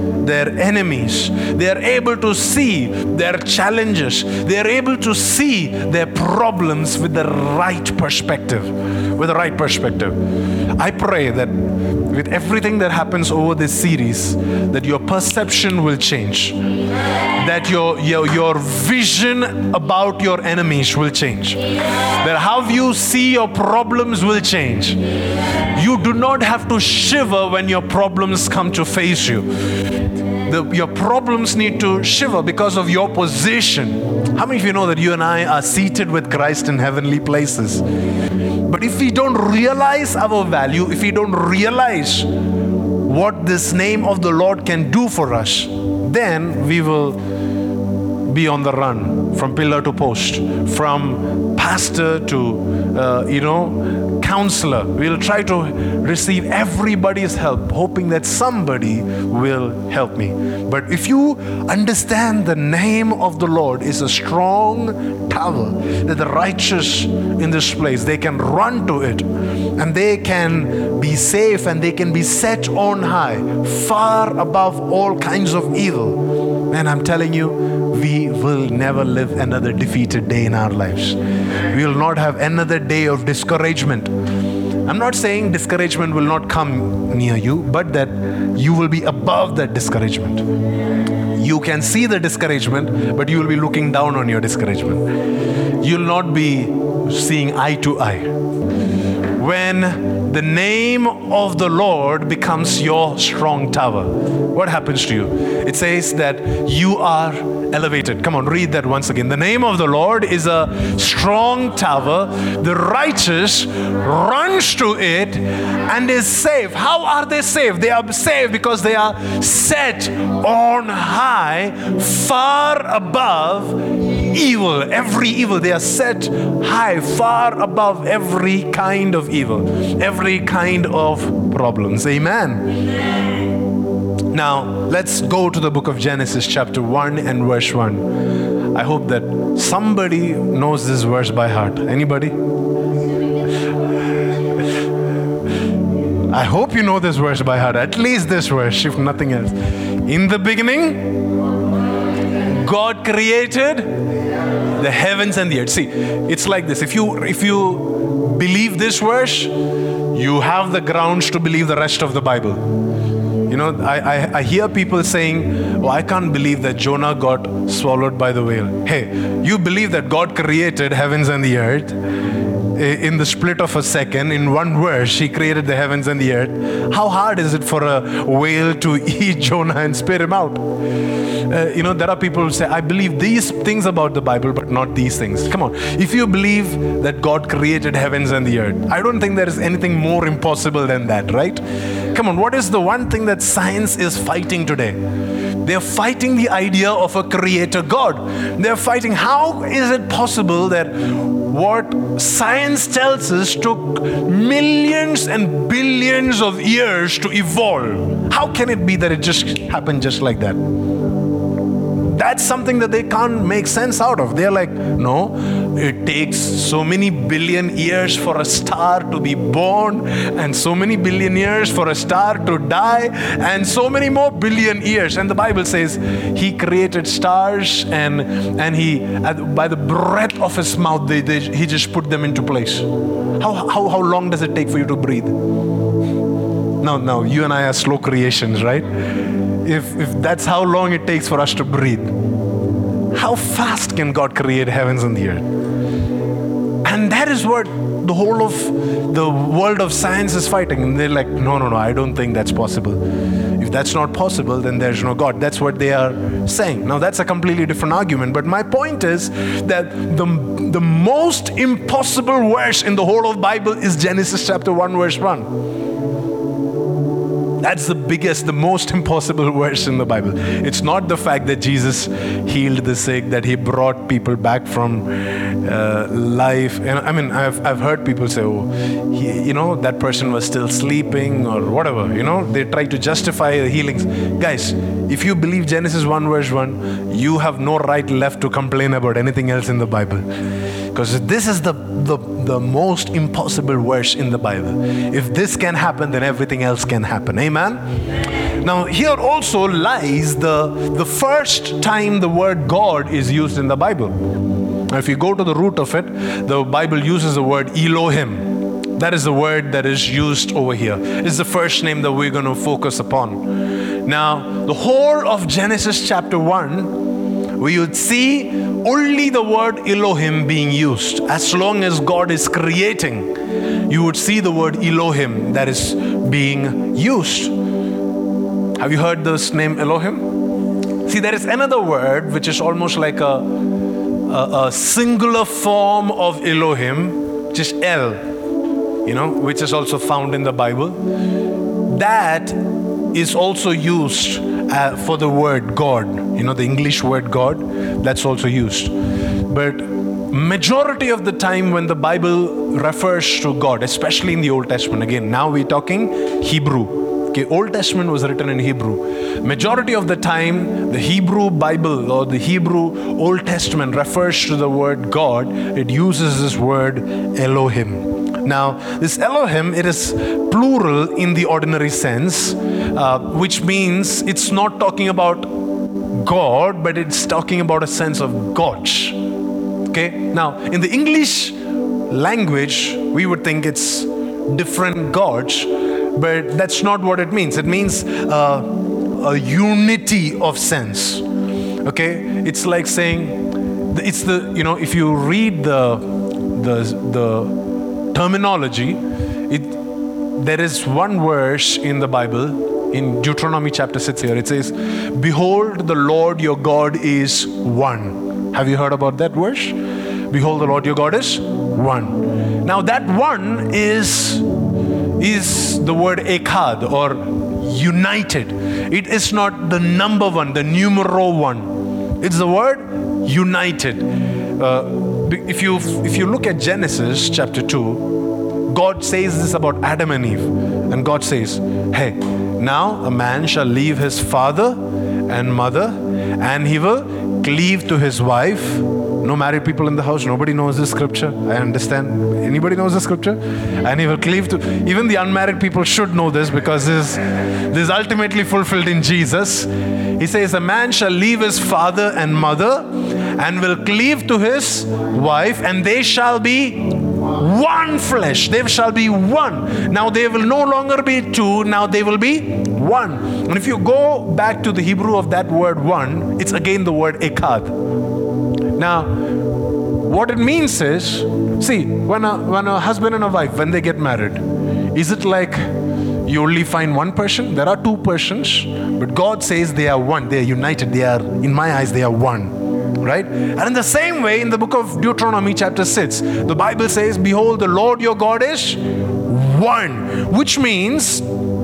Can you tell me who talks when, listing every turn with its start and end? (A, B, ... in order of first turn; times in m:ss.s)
0:00.2-0:10.2 A
0:10.8-0:16.6 A
0:17.3-0:25.0 A
0:25.7-0:29.5 A
0:30.3-0:37.8 A
0:38.6-0:42.3 A
0:43.0-0:47.2 A
0:48.3-1:24.1 A
1:24.9-1:30.4 A
1:31.3-1:35.1 A
1:35.8-1:38.3 A
1:39.4-2:12.7 A
2:14.3-2:22.4 A
2:26.3-2:31.2 A
2:32.4-2:34.0 A
2:34.8-2:39.5 A
2:40.1-2:42.7 A
2:43.5-2:52.0 A
2:52.8-3:00.7 A
3:01.5-3:15.0 A
3:15.6-3:30.6 A
3:32.1-3:52.9 A
3:53.4-3:55.4 A
3:56.8-3:58.9 A
3:59.6-4:02.1 A
4:03.1-4:05.5 A
4:06.8-4:13.0 A
4:13.6-4:25.5 A
4:27.6-4:50.3 A
4:50.9-4:57.8 A
4:58.6-5:04.2 A
5:04.9-5:23.4 A
5:23.9-5:27.6 A
5:28.8-5:30.3 A
5:31.1-5:33.6 A
5:34.3-5:38.2 A
5:39.0-5:41.0 A
5:41.9-5:48.9 A
5:49.5-6:15.5 A
6:16.1-6:19.2 A
6:19.9-6:21.6 A
6:22.1-6:31.2 A
6:31.8-6:37.6 A
6:38.1-6:39.8 A
6:40.4-6:49.8 A
6:50.3-6:54.5 A
6:55.2-7:47.8 A
7:48.8-7:49.2 A
7:50.0-7:55.7 A
7:56.3-8:11.3 A